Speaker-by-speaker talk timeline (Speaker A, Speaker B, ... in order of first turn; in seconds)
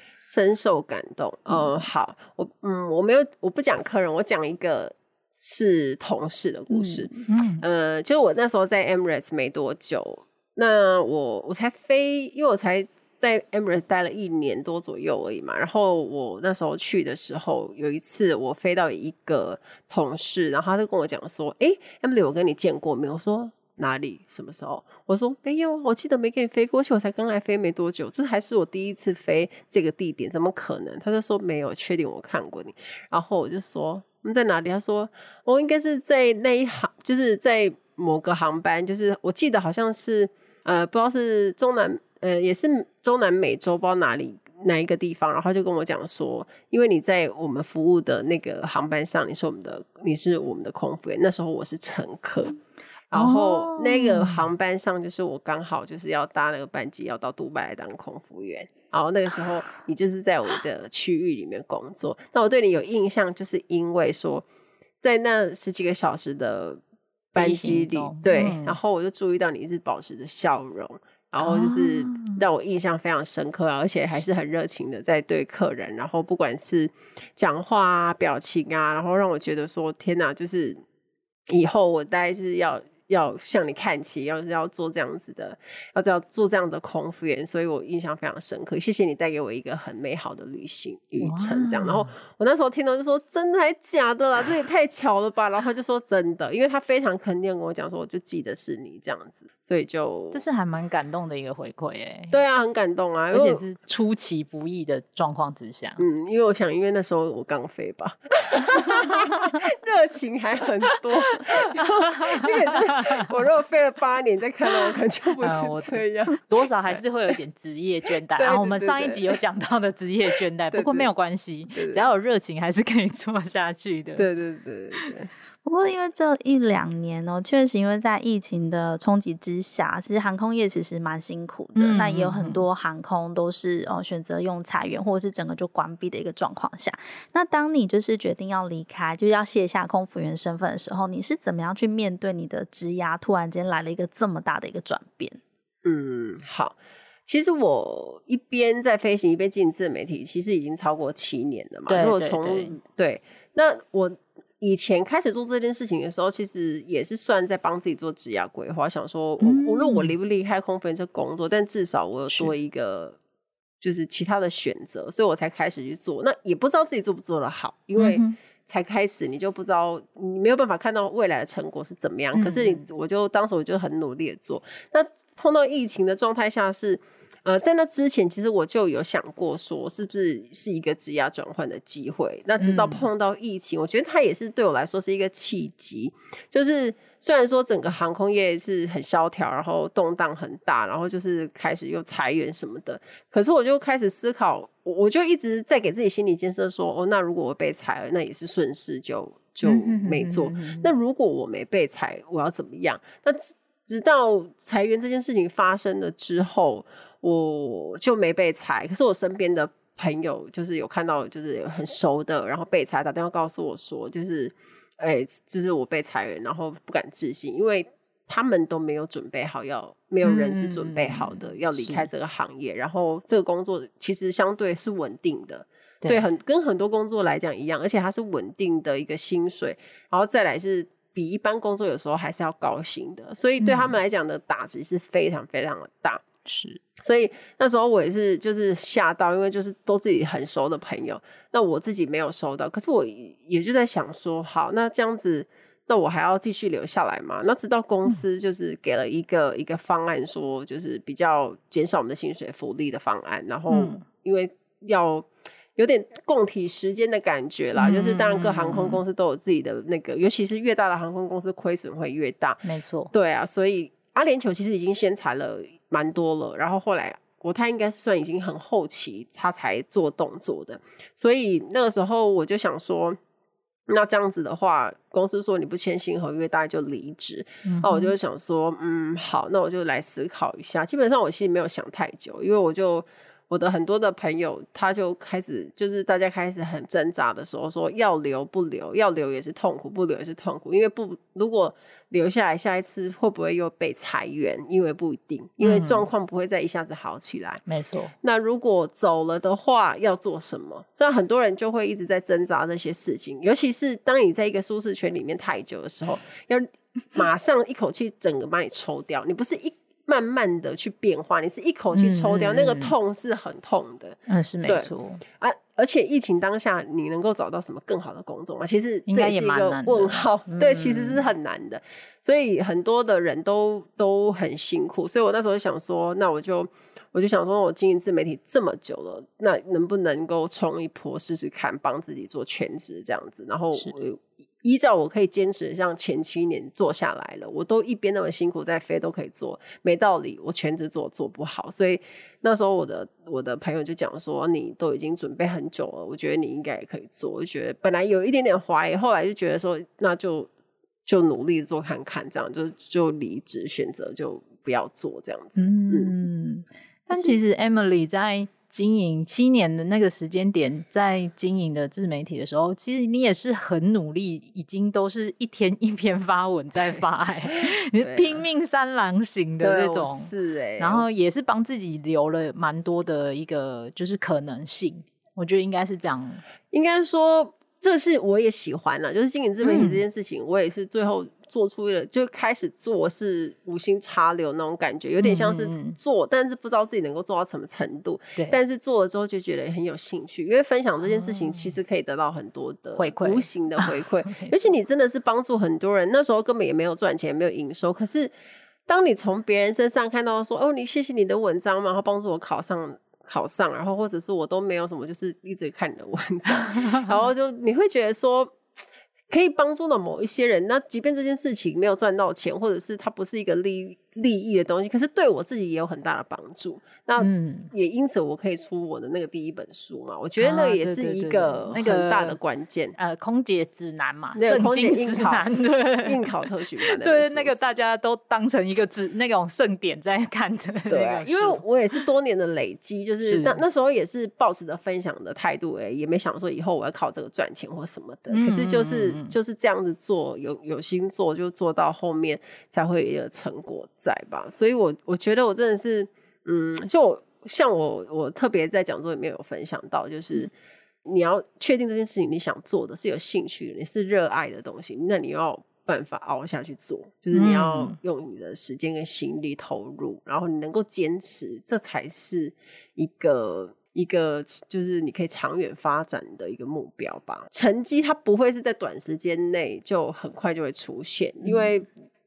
Speaker A: 0.3-52.6, 53.1-64.5, 65.0-66.8, 67.3-80.8, 81.5-100.4, 102.3-103.6, 106.0-117.0, 118.4-119.4, 120.7-121.1, 121.7-122.0, 124.2-125.3, 145.8-163.2, 163.8-236.2, 237.0-273.2, 273.9-297.6, 298.2-350.5, 351.1-356.1, 366.8-368.4, 369.6-371.1, 376.7-398.3, 398.9-408.7, 409.3-423.0, 424.4-425.5, 426.1-427.6, 430.9-450.5, 451.1-471.9
Speaker B: 6.7-7.6, 53.1-54.4, 67.4-68.8, 71.4-72.4, 91.2-92.1, 100.3-102.4, 103.3-106.0, 112.2-113.1, 114.7-124.3, 131.8-132.6, 151.9-152.8, 159.4-160.1, 168.0-168.4, 172.3-172.8, 182.6-183.1, 199.7-200.9, 220.2-222.1, 233.6-233.9, 236.5-236.8, 253.7-254.0, 257.8-259.0, 262.6-263.1, 277.6-278.1, 295.6-296.1, 297.7-298.1, 311.9-312.9, 314.3-315.2, 319.1-321.2, 355.6-376.4, 379.6-380.0, 385.2-386.0, 391.0-391.8, 393.0-394.7, 417.2-417.7, 420.4-422.4, 423.0-431.6, 433.2-433.6, 438.3-439.3, 457.3-458.0, 471.4-471.7
Speaker C: 125.7-145.4